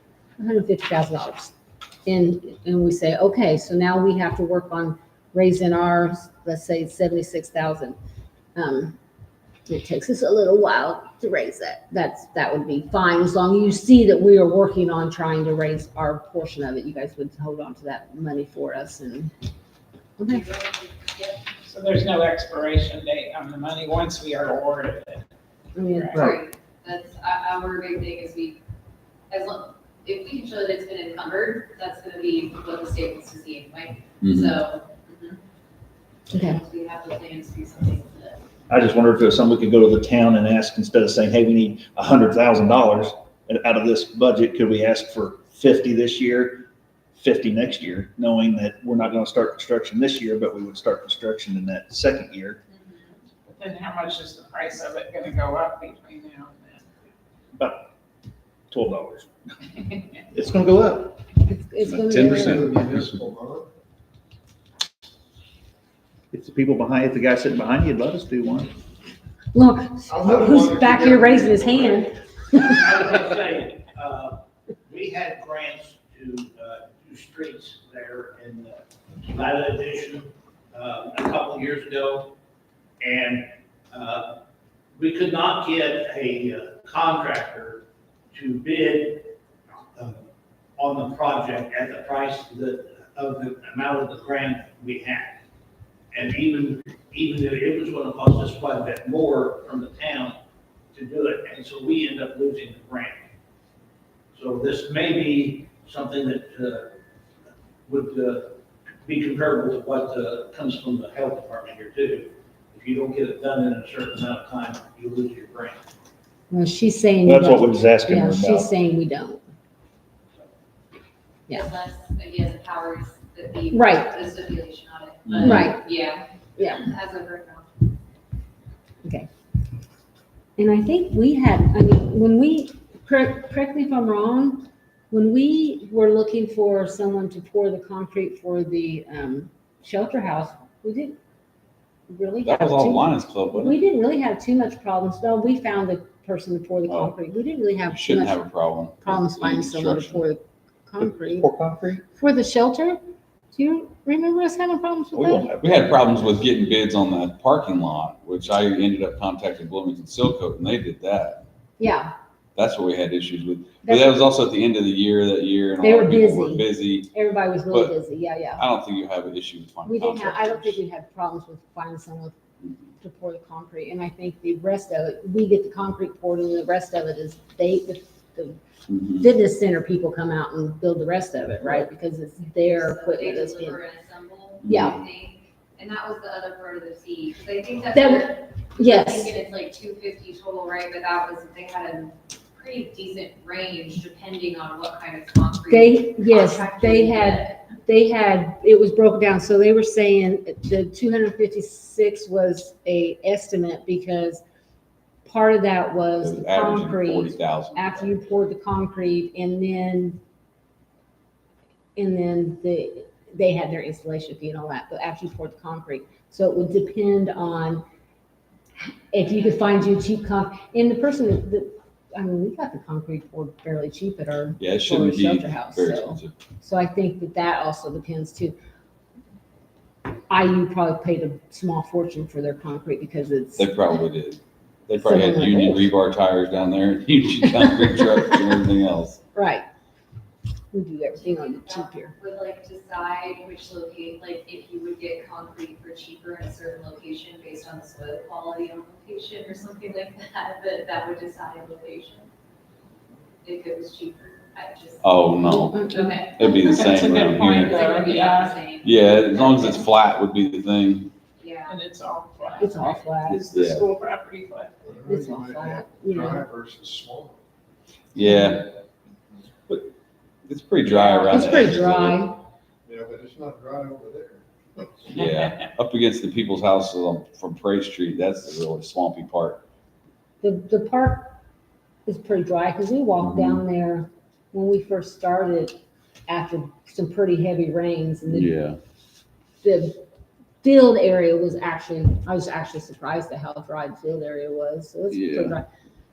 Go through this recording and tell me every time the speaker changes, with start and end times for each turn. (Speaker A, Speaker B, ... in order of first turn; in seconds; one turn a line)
Speaker A: 0.4-1.5
Speaker A: 2.0-8.0
Speaker A: 8.6-9.0
Speaker A: 9.7-19.3
Speaker A: 20.2-20.4
Speaker B: 20.3-21.5
Speaker C: 21.6-25.2
Speaker A: 25.8-26.3
Speaker C: 25.9-26.2
Speaker B: 26.1-28.6
Speaker B: 29.3-35.4
Speaker D: 34.2-34.5
Speaker A: 36.3-36.6
Speaker B: 36.3-38.4
Speaker E: 38.7-52.6
Speaker B: 52.8-53.1
Speaker C: 53.5-56.9
Speaker E: 57.6-57.9
Speaker E: 58.7-59.3
Speaker E: 60.3-61.3
Speaker A: 61.5-62.8
Speaker D: 61.9-63.2
Speaker F: 62.3-63.7
Speaker E: 66.3-68.7
Speaker A: 69.5-72.9
Speaker F: 70.1-72.6
Speaker G: 72.6-82.3
Speaker G: 83.0-84.4
Speaker G: 85.0-89.4
Speaker G: 89.9-95.4
Speaker G: 96.1-100.4
Speaker G: 100.9-103.3
Speaker G: 104.3-107.0
Speaker G: 107.9-115.8
Speaker A: 116.5-119.4
Speaker E: 117.2-118.7
Speaker B: 121.5-127.9
Speaker A: 123.7-124.1
Speaker D: 125.3-125.6
Speaker A: 125.4-125.8
Speaker A: 126.6-126.8
Speaker A: 129.0-129.3
Speaker A: 130.6-141.2
Speaker A: 142.1-148.4
Speaker D: 142.4-143.8
Speaker D: 146.9-147.2
Speaker D: 147.9-150.2
Speaker A: 149.0-151.5
Speaker E: 151.0-152.0
Speaker A: 152.1-153.0
Speaker A: 153.5-155.5
Speaker E: 155.1-156.1
Speaker D: 155.6-161.4
Speaker A: 161.8-162.1
Speaker D: 162.6-167.1
Speaker A: 163.8-164.2
Speaker A: 165.8-168.6
Speaker D: 167.7-168.0
Speaker D: 168.6-170.8
Speaker A: 169.9-172.4
Speaker A: 173.0-178.6
Speaker D: 178.9-179.2
Speaker A: 179.1-183.8
Speaker B: 182.6-197.6
Speaker A: 184.6-185.0
Speaker D: 184.7-185.0
Speaker A: 187.9-189.3
Speaker A: 195.7-204.4
Speaker A: 205.2-210.2
Speaker D: 206.2-208.2
Speaker A: 212.0-217.8
Speaker A: 218.8-228.6
Speaker D: 224.6-226.3
Speaker A: 230.3-233.7
Speaker D: 233.6-239.2
Speaker A: 235.0-235.9
Speaker A: 239.3-239.7
Speaker A: 240.7-242.1
Speaker B: 241.1-252.3
Speaker B: 253.4-256.7
Speaker D: 255.0-257.8
Speaker A: 255.4-256.2
Speaker C: 256.6-258.6
Speaker B: 257.3-259.9
Speaker D: 258.8-261.1
Speaker B: 261.4-261.8
Speaker C: 261.7-264.7
Speaker B: 262.4-262.8
Speaker A: 262.6-263.4
Speaker D: 263.5-263.9
Speaker F: 264.8-267.4
Speaker A: 265.1-266.5
Speaker D: 268.1-268.7
Speaker A: 268.2-268.6
Speaker D: 270.5-272.3
Speaker A: 271.2-272.4
Speaker F: 272.9-275.2
Speaker D: 275.1-279.6
Speaker A: 280.4-281.4
Speaker A: 282.1-285.8
Speaker D: 283.2-283.6
Speaker A: 286.3-288.5
Speaker D: 288.3-288.8
Speaker A: 289.6-290.0
Speaker A: 290.6-295.6
Speaker D: 295.1-295.6